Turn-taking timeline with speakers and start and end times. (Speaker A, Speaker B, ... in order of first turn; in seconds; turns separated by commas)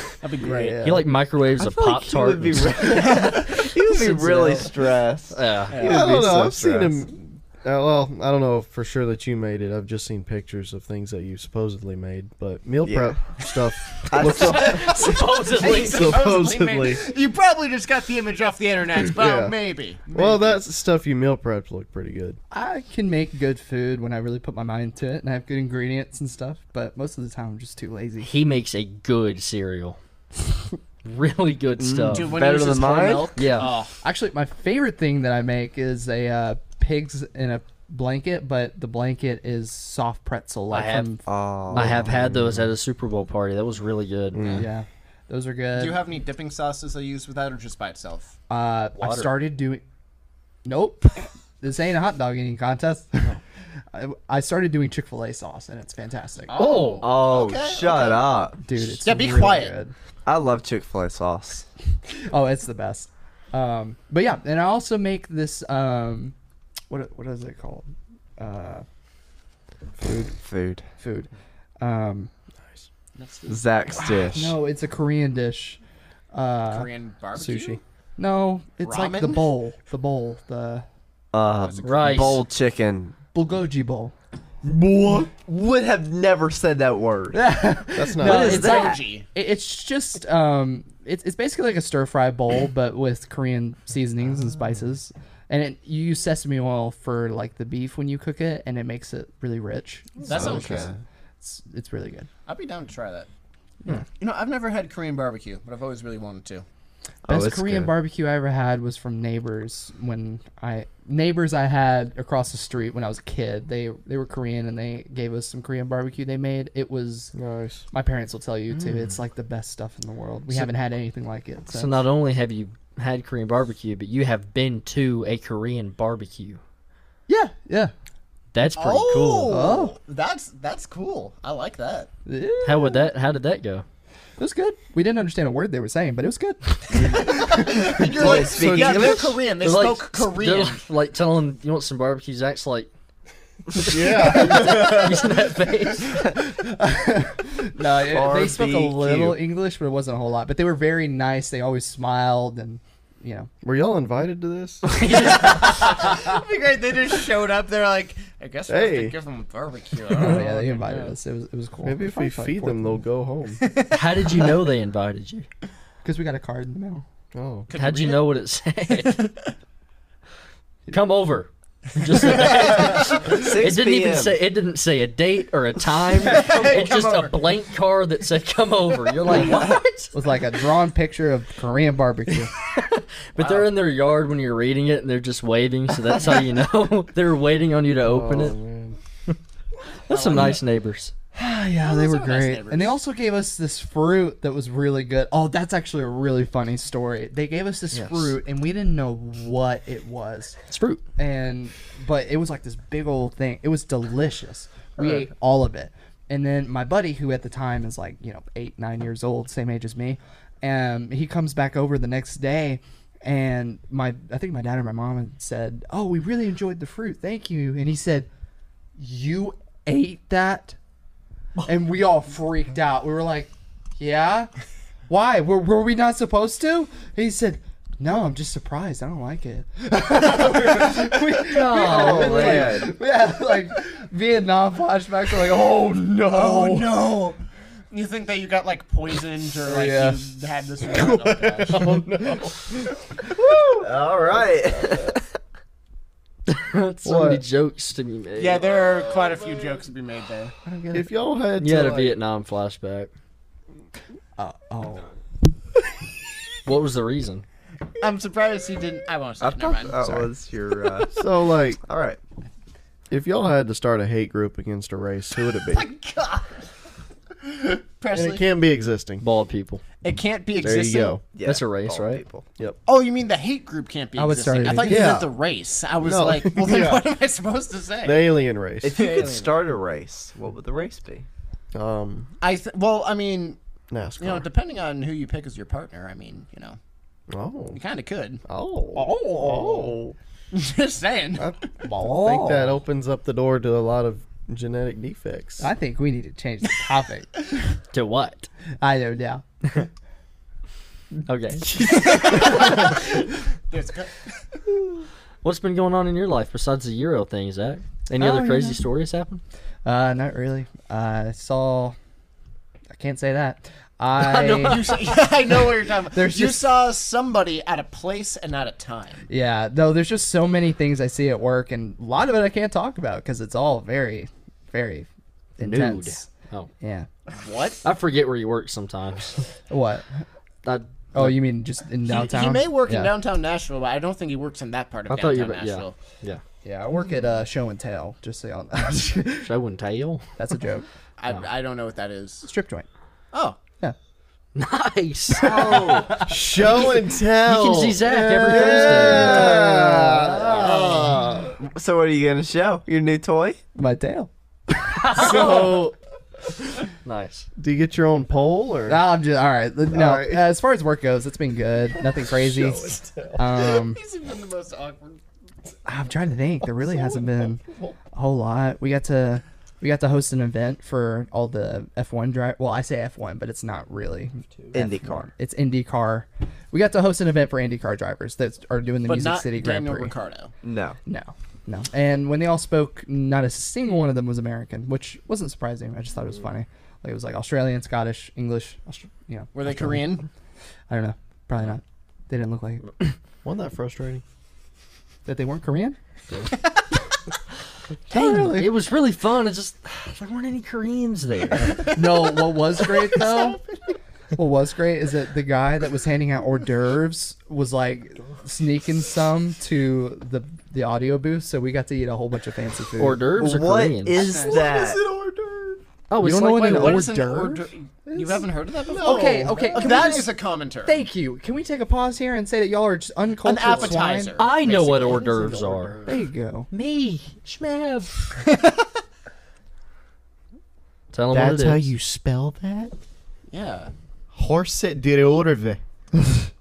Speaker A: 0.2-0.8, Speaker B: 0.4-1.1, Speaker C: 0.8-4.7, Speaker D: 1.6-7.0, Speaker A: 2.8-3.4, Speaker C: 5.3-5.9, Speaker A: 5.7-6.3, Speaker B: 5.8-15.1, Speaker D: 12.8-13.2, Speaker D: 14.1-15.4, Speaker C: 14.2-16.2, Speaker A: 14.2-20.6, Speaker B: 15.6-17.0, Speaker B: 19.1-19.5, Speaker B: 20.1-22.4, Speaker E: 22.5-28.3, Speaker C: 28.2-30.0, Speaker C: 31.0-32.4, Speaker D: 31.8-33.4, Speaker A: 32.1-33.9, Speaker C: 33.4-33.7, Speaker E: 34.0-42.0, Speaker C: 40.7-41.1, Speaker D: 41.2-42.1, Speaker C: 41.7-44.6, Speaker B: 42.0-42.7, Speaker B: 44.3-44.6, Speaker A: 44.4-44.6, Speaker E: 44.5-46.0, Speaker A: 45.7-48.3, Speaker E: 48.5-49.8, Speaker C: 49.0-49.3, Speaker E: 50.6-53.4, Speaker E: 53.9-56.5, Speaker A: 56.5-58.3, Speaker C: 56.5-57.0, Speaker D: 56.8-58.6, Speaker E: 58.6-59.9, Speaker A: 59.0-59.7, Speaker D: 60.2-61.6, Speaker E: 62.3-66.3, Speaker E: 66.9-68.8, Speaker E: 70.0-70.3, Speaker D: 70.1-70.8, Speaker E: 71.0-72.3, Speaker A: 73.2-73.7, Speaker D: 73.5-74.5, Speaker E: 74.0-75.8, Speaker E: 76.3-76.9, Speaker A: 76.7-77.8, Speaker B: 77.4-77.7, Speaker E: 77.6-80.8, Speaker A: 78.8-79.5, Speaker D: 81.3-83.1, Speaker A: 81.6-82.4, Speaker C: 81.8-82.4, Speaker E: 83.3-84.1, Speaker B: 84.6-85.3, Speaker D: 85.2-87.4, Speaker E: 87.3-100.9, Speaker B: 87.9-88.6, Speaker D: 88.2-89.0, Speaker A: 88.4-89.3, Speaker A: 100.2-100.9, Speaker D: 100.3-100.9, Speaker E: 101.4-102.3, Speaker A: 102.5-103.3, Speaker A: 104.2-106.6, Speaker D: 107.3-107.9, Speaker E: 107.3-117.3, Speaker B: 117.3-117.8, Speaker E: 117.9-122.0, Speaker C: 118.8-119.1, Speaker C: 121.7-126.6, Speaker E: 127.3-127.9, Speaker C: 128.5-129.6, Speaker A: 128.7-132.1, Speaker E: 129.4-130.0, Speaker E: 132.2-133.1, Speaker C: 132.6-133.8, Speaker E: 134.4-137.4, Speaker D: 136.9-139.4, Speaker A: 137.2-140.8, Speaker B: 138.0-139.3, Speaker C: 139.6-142.9, Speaker C: 143.7-146.2, Speaker B: 143.8-145.3, Speaker E: 146.3-153.5, Speaker D: 148.0-149.4, Speaker B: 153.6-154.9, Speaker C: 155.0-155.9, Speaker A: 155.0-161.2, Speaker B: 158.7-159.1, Speaker E: 160.2-163.0, Speaker B: 161.8-163.6, Speaker A: 163.6-164.5, Speaker C: 163.9-165.5, Speaker E: 166.0-167.0, Speaker B: 167.3-167.7, Speaker A: 167.7-168.3, Speaker C: 167.7-169.3, Speaker A: 168.9-169.5, Speaker C: 170.9-180.1, Speaker A: 172.1-173.2, Speaker D: 172.6-174.4, Speaker A: 176.2-177.4, Speaker E: 180.1-182.5, Speaker C: 182.6-188.6, Speaker A: 183.4-183.7, Speaker B: 188.0-189.0, Speaker C: 190.1-191.1, Speaker A: 190.1-190.6, Speaker E: 191.3-200.6, Speaker A: 191.8-193.0, Speaker C: 197.9-198.3, Speaker C: 200.7-201.0, Speaker E: 201.2-218.3, Speaker E: 219.0-220.8, Speaker E: 221.6-224.5, Speaker E: 225.1-237.2, Speaker C: 231.4-232.8, Speaker D: 231.9-232.9, Speaker A: 236.3-237.4, Speaker A: 237.9-241.9, Speaker E: 239.6-240.2, Speaker B: 240.9-245.2, Speaker D: 243.8-245.2, Speaker C: 246.5-248.8, Speaker B: 247.0-247.4, Speaker A: 248.3-250.5, Speaker E: 250.6-251.1, Speaker B: 250.9-252.2, Speaker C: 251.6-253.1, Speaker E: 254.4-255.1, Speaker C: 256.6-257.4, Speaker A: 258.0-260.2, Speaker D: 259.4-261.3, Speaker B: 261.1-261.8, Speaker D: 261.8-262.2, Speaker B: 263.1-265.9, Speaker A: 265.7-266.6, Speaker A: 267.4-268.4, Speaker B: 268.1-269.2, Speaker C: 269.2-269.8, Speaker A: 270.0-271.2, Speaker B: 270.6-271.2, Speaker D: 271.2-272.4, Speaker C: 271.4-272.2, Speaker A: 272.8-278.3, Speaker E: 274.1-275.2, Speaker B: 274.8-275.3, Speaker B: 276.0-277.0, Speaker B: 278.0-278.9, Speaker D: 278.8-281.2, Speaker A: 278.9-279.6, Speaker B: 281.7-282.3, Speaker A: 282.4-283.6, Speaker B: 283.9-284.5, Speaker A: 284.2-286.8, Speaker B: 287.3-287.8, Speaker A: 287.7-288.4, Speaker B: 288.4-290.1, Speaker A: 288.9-289.9, Speaker D: 289.5-289.9, Speaker A: 290.5-291.5, Speaker B: 291.4-295.7, Speaker E: 291.8-292.8, Speaker E: 295.6-297.4, Speaker C: 297.9-298.5, Speaker E: 298.8-299.8, Speaker C: 301.2-302.4, Speaker A: 301.8-304.3, Speaker C: 305.4-309.4, Speaker E: 308.1-308.8, Speaker E: 309.8-311.9, Speaker E: 312.9-314.9, Speaker C: 314.2-315.1, Speaker A: 314.6-319.2, Speaker E: 316.1-316.8, Speaker E: 319.3-326.3, Speaker C: 325.6-326.7, Speaker E: 326.8-327.1, Speaker A: 327.3-327.8, Speaker C: 327.8-329.5, Speaker E: 329.7-330.1, Speaker C: 330.6-331.4, Speaker E: 331.1-333.1, Speaker A: 332.0-335.9, Speaker C: 335.1-336.4, Speaker E: 336.6-339.5, Speaker C: 339.4-340.2, Speaker E: 340.4-340.9, Speaker A: 341.2-342.5, Speaker E: 342.4-342.9, Speaker A: 343.3-343.6, Speaker C: 344.5-345.8, Speaker E: 345.4-346.3, Speaker D: 345.4-346.2, Speaker B: 346.1-351.4, Speaker C: 347.4-349.6, Speaker E: 348.7-350.9, Speaker D: 348.8-349.6, Speaker A: 350.6-351.5, Speaker D: 351.6-353.6, Speaker E: 353.7-354.3, Speaker E: 354.9-355.5, Speaker C: 355.0-355.8, Speaker B: 355.1-355.9, Speaker C: 357.0-357.5, Speaker B: 357.6-359.0, Speaker E: 358.9-364.0, Speaker B: 359.9-360.5, Speaker B: 361.9-363.6, Speaker A: 363.5-365.2, Speaker E: 365.8-380.1, Speaker B: 366.6-367.9, Speaker D: 374.7-375.3, Speaker A: 379.1-380.5, Speaker D: 380.6-381.0, Speaker E: 381.1-390.1, Speaker A: 389.5-390.3, Speaker E: 390.9-393.0, Speaker B: 393.4-394.2, Speaker E: 395.2-396.0, Speaker E: 398.1-398.7, Speaker C: 398.1-402.0, Speaker A: 401.6-403.9, Speaker E: 401.9-403.6, Speaker E: 404.3-413.2, Speaker C: 413.0-414.2, Speaker D: 413.3-415.0, Speaker A: 414.1-414.7, Speaker B: 414.2-415.8, Speaker C: 416.1-417.1, Speaker E: 416.2-418.4, Speaker A: 416.6-421.0, Speaker B: 418.9-420.2, Speaker E: 419.0-420.3, Speaker E: 420.8-424.4, Speaker A: 423.4-425.6, Speaker C: 424.4-426.0, Speaker B: 425.0-426.1, Speaker E: 426.1-426.7, Speaker C: 426.7-428.3, Speaker A: 428.5-428.9, Speaker C: 431.1-431.9, Speaker B: 431.3-432.9, Speaker A: 433.5-433.9, Speaker B: 434.3-435.8